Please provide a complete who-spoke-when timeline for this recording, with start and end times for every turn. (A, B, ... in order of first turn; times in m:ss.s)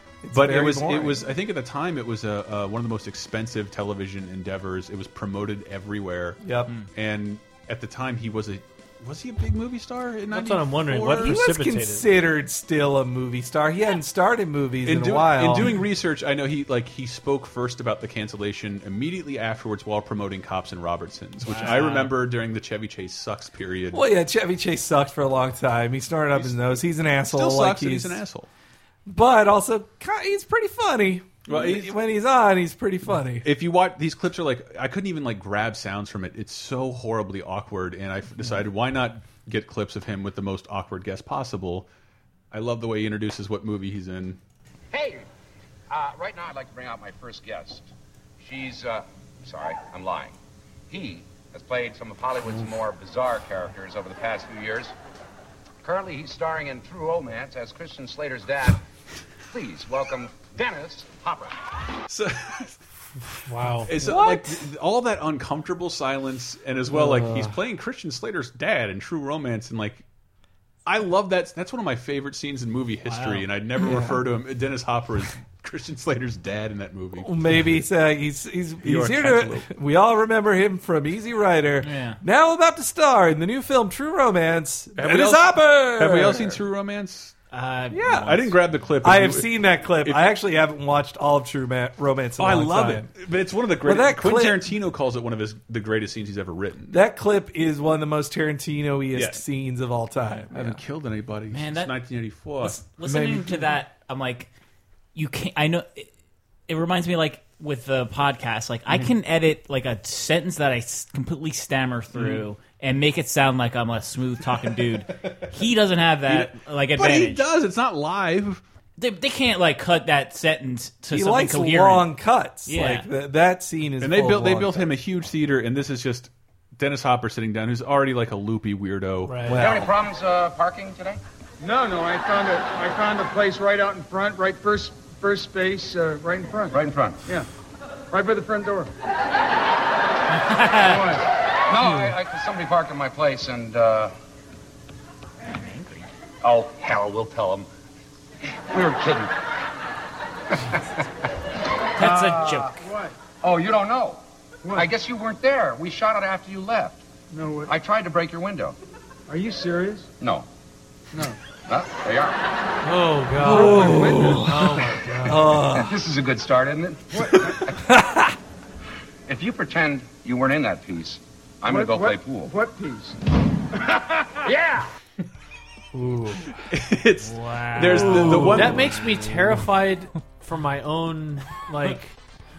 0:00.2-0:01.2 A
0:00.3-0:06.4 B
0:06.4-0:06.7 A
0:06.9-0:11.4 B
0:10.3-0:12.0 C
0:11.1-0:15.8 A
0:14.8-0:24.0 B
0:21.4-0:22.1 D
0:23.9-0:28.2 A
0:26.3-0:28.5 B
0:29.1-0:33.5 A
0:31.5-0:32.0 B
0:33.4-0:41.9 B
0:42.5-0:44.4 B
0:44.9-0:45.3 E
0:45.9-0:47.9 E
0:48.4-0:50.3 E
0:50.9-0:54.9 E
0:55.8-0:58.8 E
0:59.5-1:01.6 E
1:02.1-1:02.8 B
1:03.5-1:04.6 C
1:03.8-1:10.0 B
1:06.9-1:07.5 A
1:10.8-1:17.4 B
1:13.0-1:13.4 D
1:13.8-1:14.2 A
1:17.2-1:26.6 A
1:18.8-1:19.6 B
1:21.8-1:22.2 D
1:25.0-1:27.3 B
1:27.5-1:28.3 D
1:27.9-1:28.4 A
1:28.1-1:29.5 B
1:29.0-1:33.1 A
1:30.0-1:30.3 B
1:32.4-1:37.0 B
1:33.8-1:34.7 A
1:36.9-1:40.8 A
1:39.1-1:39.4 B
1:40.5-1:42.8 B
1:41.5-1:41.9 D
1:42.7-1:44.5 D
1:42.9-1:43.7 A
1:45.1-1:46.1 D
1:46.7-1:57.4 D
1:52.1-1:52.4 B
1:56.2-1:58.6 B
1:59.0-2:02.1 D
2:01.1-2:04.9 A
2:02.6-2:03.1 D
2:04.0-2:09.7 B
2:09.2-2:09.6 C
2:09.4-2:09.9 A
2:09.5-2:11.2 E
2:11.6-2:17.5 F
2:16.7-2:17.2 E
2:18.1-2:18.9 F
2:20.3-2:21.2 D
2:20.8-2:21.2 F
2:21.7-2:24.1 E
2:25.5-2:26.0 D
2:26.4-2:27.7 E
2:28.7-2:29.3 E
2:30.5-2:31.0 E
2:32.0-2:32.8 D
2:32.0-2:33.2 F
2:33.4-2:34.2 E
2:34.6-2:34.9 F
2:34.7-2:37.0 E
2:37.3-2:37.7 F
2:37.7-2:38.8 E
2:39.3-2:40.1 F
2:40.2-2:40.5 E
2:41.6-2:42.4 E
2:42.8-2:45.6 C
2:43.4-2:45.9 A
2:43.4-2:44.5 F
2:45.7-2:47.8 E
2:47.1-2:47.6 F
2:47.8-2:48.3 A
2:49.3-2:52.5 E
2:51.7-2:53.2 F
2:54.4-2:54.8 E
2:55.9-2:56.5 C
2:56.7-2:59.0 B
2:57.2-2:59.1 D
2:57.9-3:02.2 C